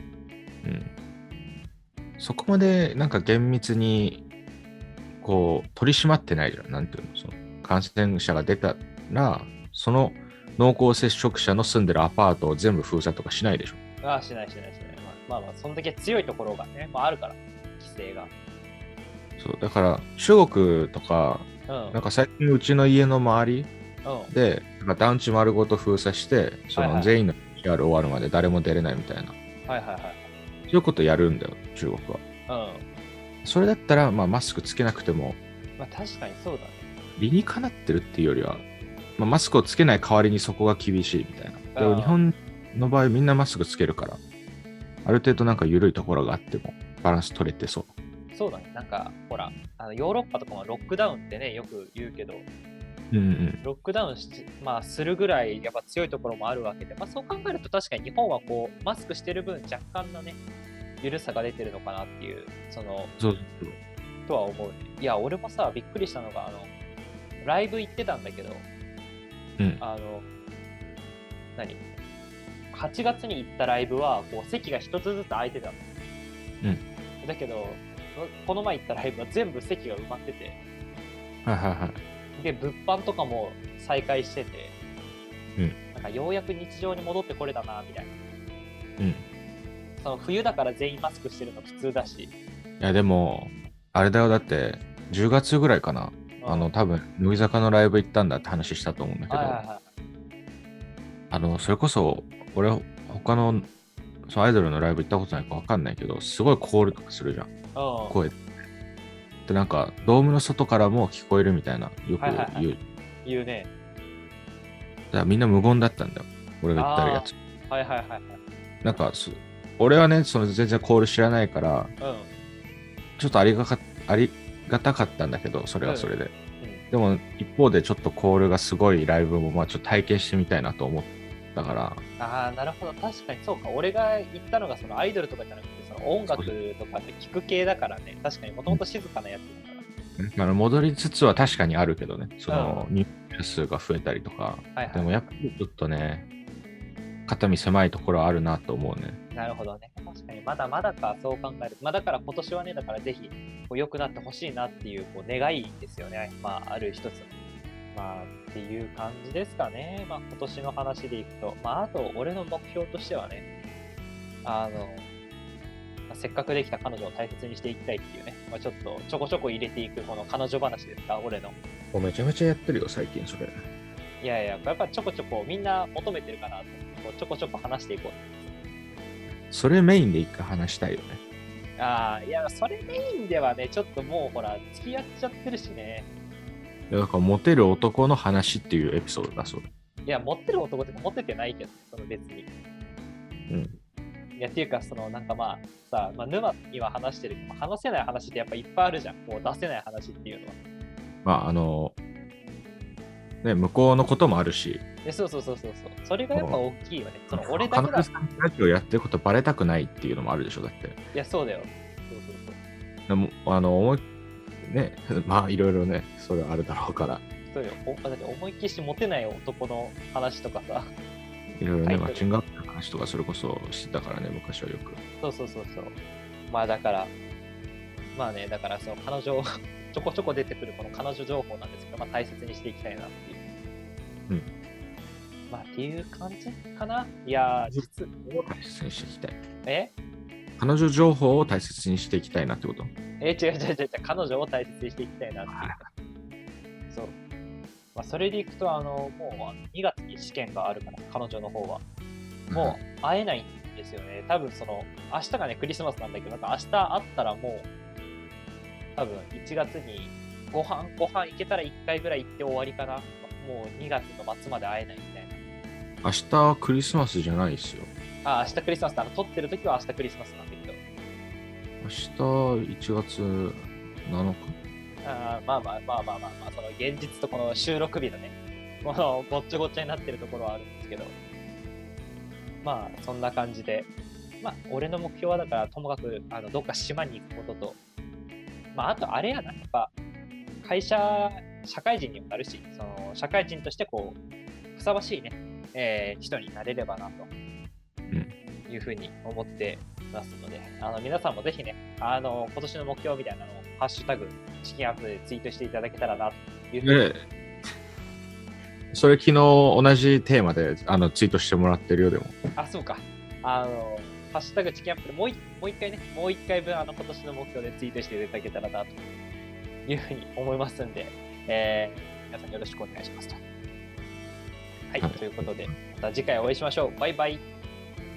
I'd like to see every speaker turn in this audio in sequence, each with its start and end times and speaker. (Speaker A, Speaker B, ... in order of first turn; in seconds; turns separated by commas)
Speaker A: 0.6-0.9, Speaker A: 2.2-4.2, Speaker A: 5.2-13.8, Speaker B: 14.0-18.3, Speaker A: 19.4-23.7, Speaker B: 21.7-22.0, Speaker B: 24.0-24.3, Speaker A: 24.3-29.3, Speaker B: 26.8-27.2, Speaker B: 29.7-30.3, Speaker A: 30.7-32.2, Speaker B: 32.5-32.8, Speaker A: 33.4-35.4, Speaker B: 35.8-36.9, Speaker A: 37.2-44.2, Speaker B: 41.8-42.2, Speaker A: 45.0-47.9, Speaker B: 48.3-52.4, Speaker A: 53.1-53.6, Speaker B: 53.6-60.4, Speaker B: 61.0-63.1, Speaker A: 63.2-63.8, Speaker B: 64.3-66.7, Speaker B: 67.4-68.6, Speaker B: 69.8-70.3, Speaker B: 71.6-71.8, Speaker B: 72.7-75.8, Speaker B: 77.2-80.5, Speaker A: 81.4-82.0, Speaker B: 82.4-84.7, Speaker B: 85.9-88.1, Speaker A: 89.0-89.2, Speaker B: 90.0-92.3, Speaker A: 92.8-99.6, Speaker B: 96.4-96.7, Speaker B: 99.3-99.8, Speaker A: 101.3-103.7, Speaker A: 104.3-107.5, Speaker B: 107.7-108.2, Speaker A: 108.1-108.4, Speaker A: 109.5-112.8, Speaker B: 112.2-112.7, Speaker B: 113.2-113.7, Speaker A: 115.1-117.3, Speaker B: 116.8-118.4, Speaker A: 118.8-121.9, Speaker B: 122.0-122.3, Speaker A: 123.2-126.3, Speaker B: 125.8-126.8, Speaker A: 126.9-132.0, Speaker B: 132.2-139.8, Speaker A: 136.3-136.5, Speaker A: 140.2-146.2, Speaker B: 142.5-142.9, Speaker B: 144.8-145.2, Speaker A: 147.3-149.2, Speaker B: 149.3-157.3, Speaker B: 157.9-163.4, Speaker B: 164.4-165.1, Speaker B: 166.1-171.5, Speaker A: 171.9-173.6, Speaker B: 174.2-178.5, Speaker A: 179.5-181.2, Speaker B: 181.8-186.1, Speaker A: 186.9-189.7, Speaker B: 190.1-192.5, Speaker A: 193.5-193.8, Speaker B: 194.4-200.6, Speaker A: 201.2-201.9, Speaker A: 203.4-204.8, Speaker B: 205.0-208.1, Speaker A: 206.3-206.6, Speaker A: 207.3-211.0, Speaker B: 211.1-212.6, Speaker A: 213.1-214.0, Speaker A: 214.6-217.2, Speaker B: 217.5-220.9, Speaker A: 221.6-225.0, Speaker B: 221.8-222.3, Speaker B: 225.2-225.9, Speaker B: 226.5-227.1, Speaker B: 228.1-233.4, Speaker B: 235.5-238.2, Speaker A: 237.7-239.4, Speaker B: 239.6-239.9, Speaker A: 240.6-242.9, Speaker B: 243.2-245.8, Speaker A: 245.5-245.8, Speaker B: 246.9-247.2, Speaker B: 247.9-251.8, Speaker A: 252.5-252.8, Speaker B: 252.5-257.7, Speaker B: 258.9-265.4, Speaker A: 266.0-267.9, Speaker B: 268.2-270.8, Speaker A: 271.8-274.5, Speaker B: 275.0-281.1, Speaker B: 282.6-283.9, Speaker B: 284.4-287.8, Speaker B: 288.7-289.9, Speaker B: 290.6-294.2, Speaker B: 294.7-297.3, Speaker B: 298.7-307.0, Speaker A: 306.8-307.3, Speaker A: 308.9-312.4, Speaker B: 312.6-319.0, Speaker B: 319.9-323.4, Speaker B: 324.9-327.4, Speaker A: 325.0-325.7